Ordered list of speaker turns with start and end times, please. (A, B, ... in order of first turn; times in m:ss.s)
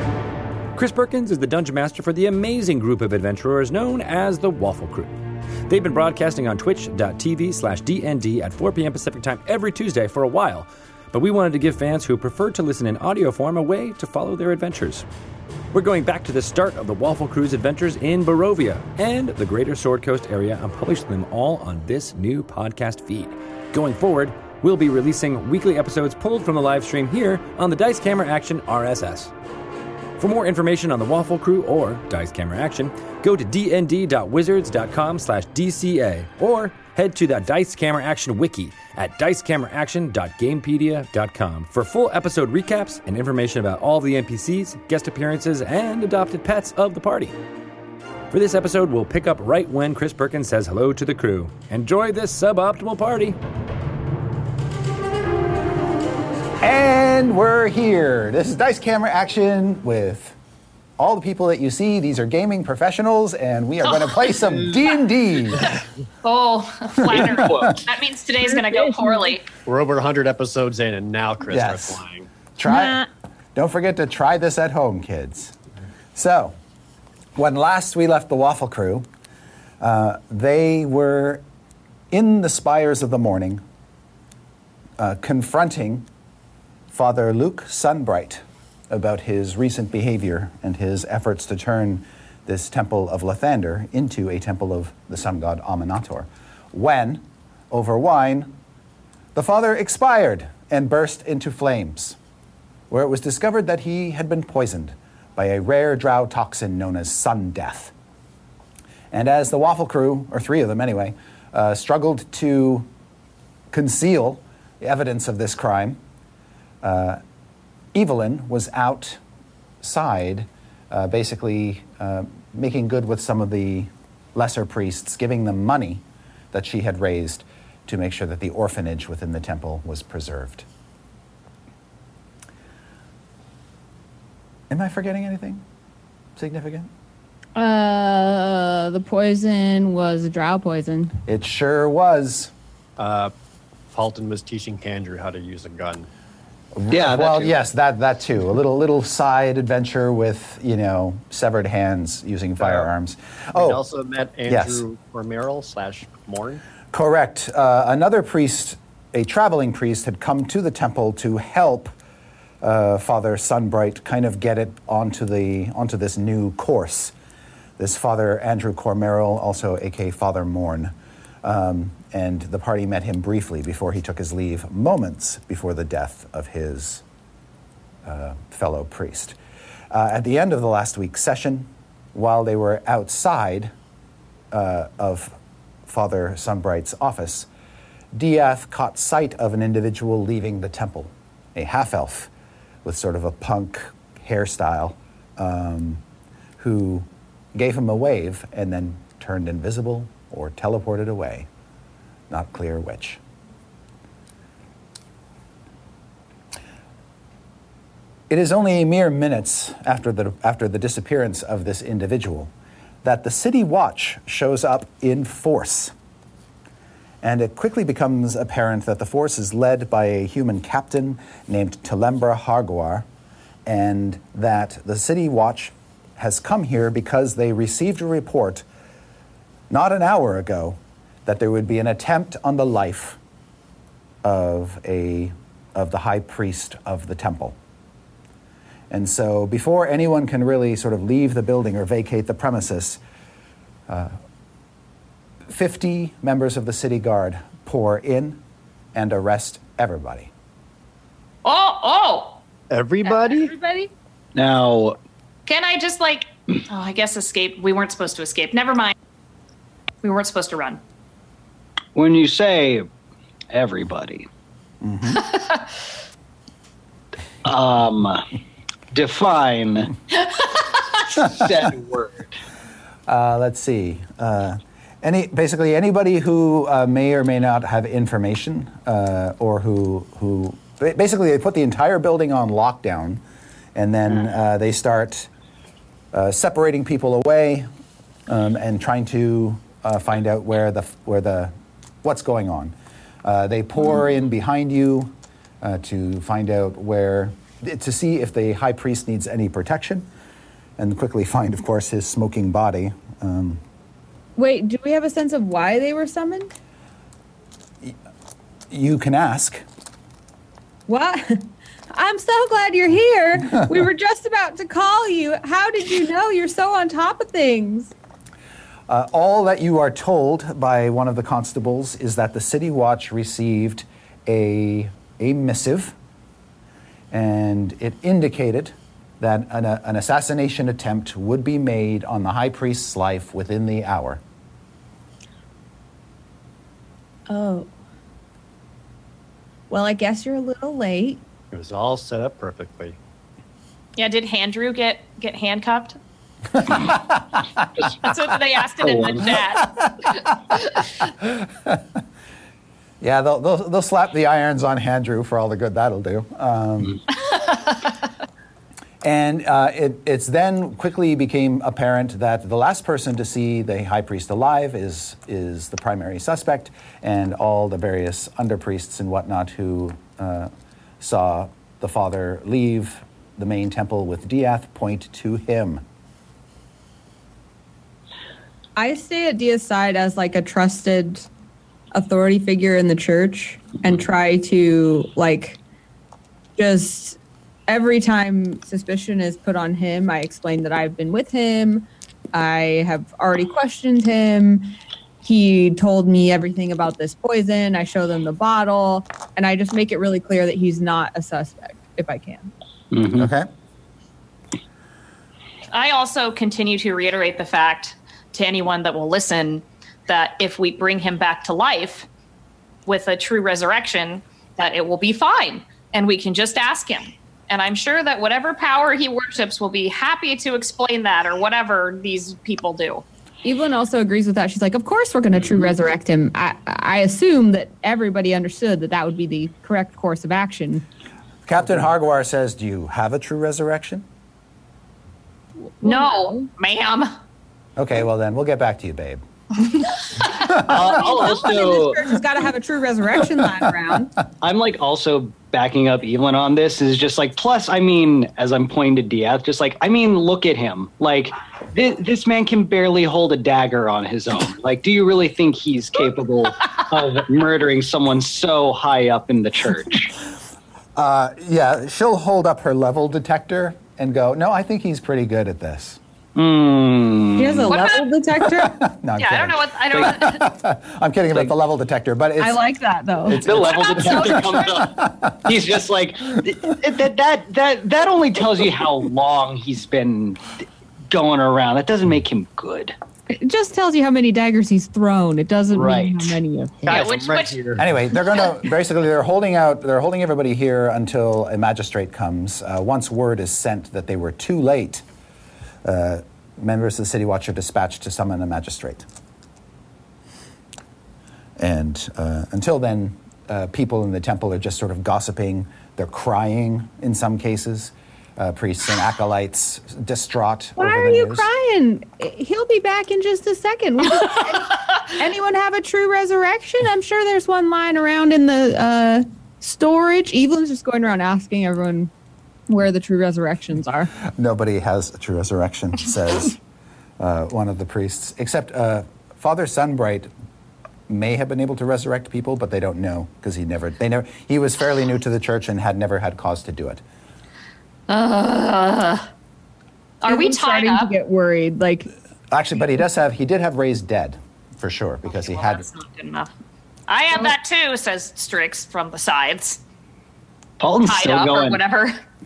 0:00.7-0:05.2 A
0:05.7-0:15.0 A
0:15.7-0:29.3 A
0:30.2-0:47.4 A
0:48.3-0:53.4 A
0:56.6-1:00.4 B
1:01.0-1:05.8 B
1:04.0-1:04.4 C
1:05.6-1:09.4 C
1:07.0-1:07.8 B
1:08.4-1:09.4 D
1:09.6-1:12.3 E
1:11.5-1:12.0 B
1:12.6-1:15.6 B
1:12.7-1:13.1 D
1:16.1-1:16.6 B
1:17.4-1:19.0 B
1:19.8-1:21.4 B
1:22.1-1:23.6 B
1:25.0-1:26.1 B
1:26.9-1:38.5 B
1:39.3-1:42.2 B
1:42.9-1:47.9 B
1:49.1-1:52.9 B
1:53.7-1:56.0 B
1:56.8-1:57.2 B
1:57.9-1:59.2 B
1:59.8-2:10.6 B
2:14.7-2:15.6 B
2:16.4-2:16.9 B
2:17.6-2:21.2 D
2:21.2-2:22.5 B
2:23.0-2:23.3 E
2:23.9-2:26.1 E
2:26.8-2:33.8 B
2:26.9-2:27.6 F
2:32.6-2:32.9 E
2:33.5-2:36.6 E
2:34.5-2:34.8 B
2:36.9-2:41.9 B
2:42.6-2:47.1 B
2:47.8-2:57.0 B
2:58.0-2:59.4 B
2:59.9-3:03.7 B
3:04.5-3:07.5 B
3:08.1-3:12.3 B
3:12.8-3:16.0 B
3:16.6-3:21.5 B
3:22.3-3:23.2 B
3:28.3-3:32.5 B
3:33.0-3:35.9 B
3:37.2-3:43.0 B
3:43.6-3:48.6 B
3:49.7-3:53.2 B
3:54.2-3:57.6 B
3:58.9-4:03.0 B
4:03.9-4:04.2 B
4:05.5-4:08.4 B
4:08.9-4:10.3 B
4:11.4-4:12.4 C
4:12.7-4:13.5 E
4:13.0-4:13.9 D
4:14.3-4:15.0 F
4:15.4-4:18.9 C
4:20.0-4:20.8 C
4:21.9-4:22.9 F
4:23.5-4:24.3 F
4:24.8-4:25.2 B
4:25.1-4:25.7 C
4:27.4-4:28.3 F
4:28.9-4:29.9 F
4:30.2-4:30.5 C
4:31.0-4:32.4 F
4:33.1-4:43.2 B
4:43.7-4:45.3 B
4:46.1-4:47.7 B
4:48.3-5:00.1 B
5:00.8-5:03.6 B
5:04.4-5:06.5 D
5:08.7-5:09.6 B
5:10.9-5:17.9 D
5:18.9-5:26.0 B
5:27.1-5:34.2 B
5:37.3-5:37.7 D
5:39.7-5:41.2 D
5:41.5-5:43.0 E
5:44.0-5:46.0 C
5:46.7-5:47.1 B
5:48.0-5:50.9 C
5:48.8-5:49.3 F
5:51.2-5:51.8 B
5:53.0-5:57.0 B
5:57.3-5:57.7 C
5:59.0-6:15.8 B
6:18.8-6:21.3 D
6:21.9-6:25.6 D
6:26.6-6:42.5 D
6:42.9-6:43.3 F
6:43.2-6:43.5 B
6:45.7-6:52.1 C
6:52.8-7:03.0 C
7:03.4-7:10.8 D
7:11.4-7:14.0 B
7:15.8-7:16.5 D
7:15.8-7:17.2 C
7:17.8-7:19.2 B
7:20.2-7:20.5 C
7:20.5-7:22.1 F
7:20.7-7:24.1 D
7:24.4-7:40.1 F
7:41.0-7:46.0 B
7:46.3-7:47.6 F
7:47.4-7:48.8 D
7:47.7-7:48.1 C
7:48.4-7:52.6 B
7:49.2-7:50.5 C
7:52.4-7:53.4 D
7:53.3-8:03.0 F
7:53.3-7:54.8 C
7:53.4-7:55.5 B
8:03.3-8:07.0 D
8:05.7-8:06.4 F
8:06.9-8:07.9 E
8:06.9-8:07.6 C
8:07.8-8:15.0 B
8:15.8-8:19.1 B
8:21.6-8:31.5 B
8:30.8-8:42.1 D
8:42.7-8:44.1 D
8:44.3-8:46.6 B
8:47.2-8:50.3 B
8:51.1-8:57.0 B
8:58.1-8:59.3 C
9:00.2-9:01.1 C
9:00.2-9:02.1 D
9:02.5-9:05.8 B
9:05.3-9:06.5 C
9:07.1-9:09.8 C
9:10.8-9:11.8 F
9:11.0-9:12.2 C